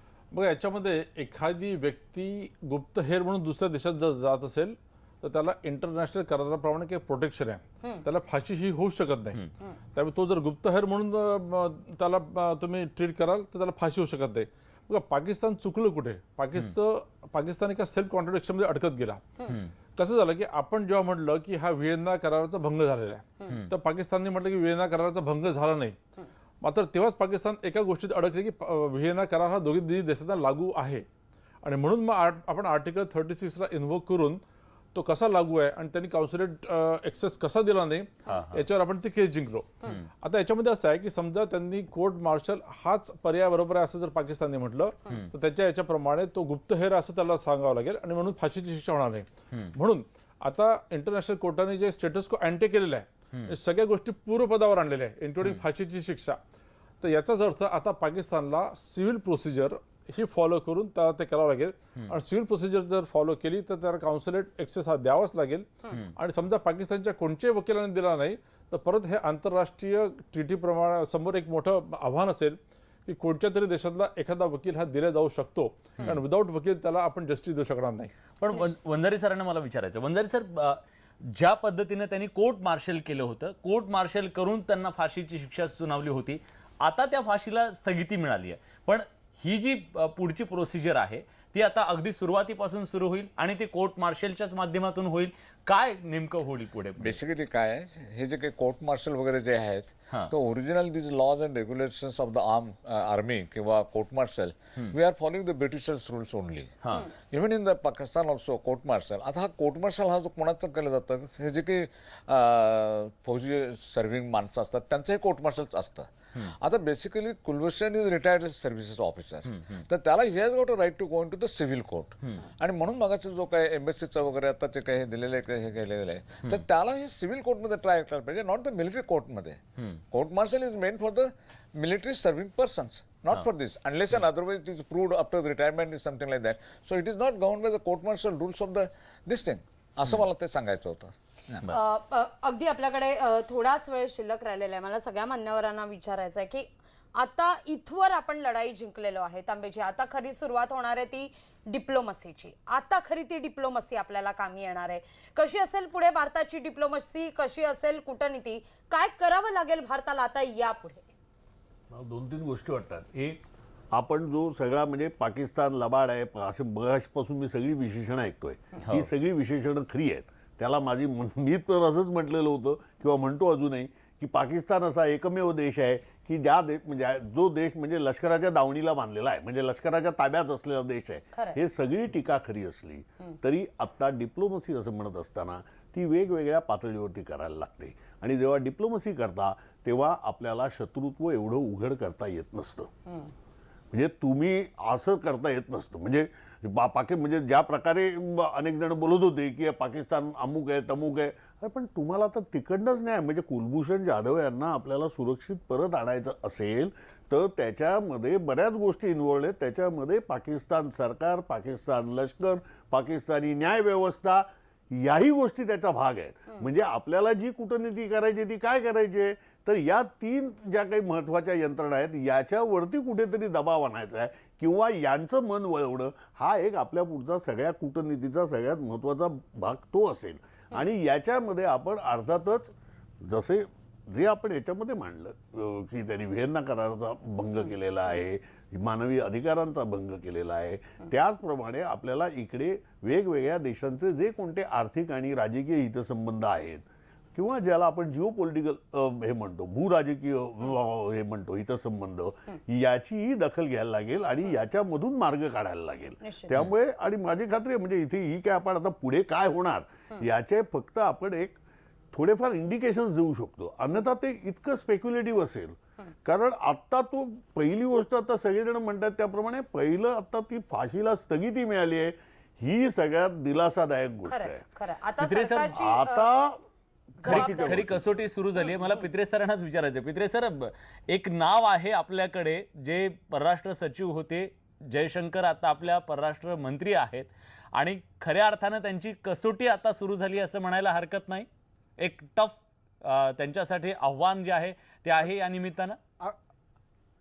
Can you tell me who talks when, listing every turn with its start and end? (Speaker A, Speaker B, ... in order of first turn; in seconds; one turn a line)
Speaker A: 0.3-9.4
Speaker A: 9.9-19.3
Speaker B: 19.4-19.7
Speaker A: 19.9-26.0
Speaker A: 26.6-31.1
Speaker A: 31.6-34.4
Speaker A: 34.9-56.4
Speaker B: 38.3-38.7
Speaker A: 57.0-78.1
Speaker B: 78.4-97.2
Speaker C: 97.0-141.7
Speaker B: 106.8-107.1
Speaker D: 141.7-161.1
Speaker E: 161.9-192.9
Speaker D: 193.1-193.3
Speaker E: 193.9-261.6
Speaker D: 256.2-256.5
Speaker E: 262.1-274.6
Speaker D: 274.2-276.3
Speaker B: 275.2-275.7
Speaker E: 275.7-276.6
Speaker E: 277.2-278.1
Speaker D: 277.2-277.8
Speaker B: 277.2-291.5
Speaker B: 292.0-296.0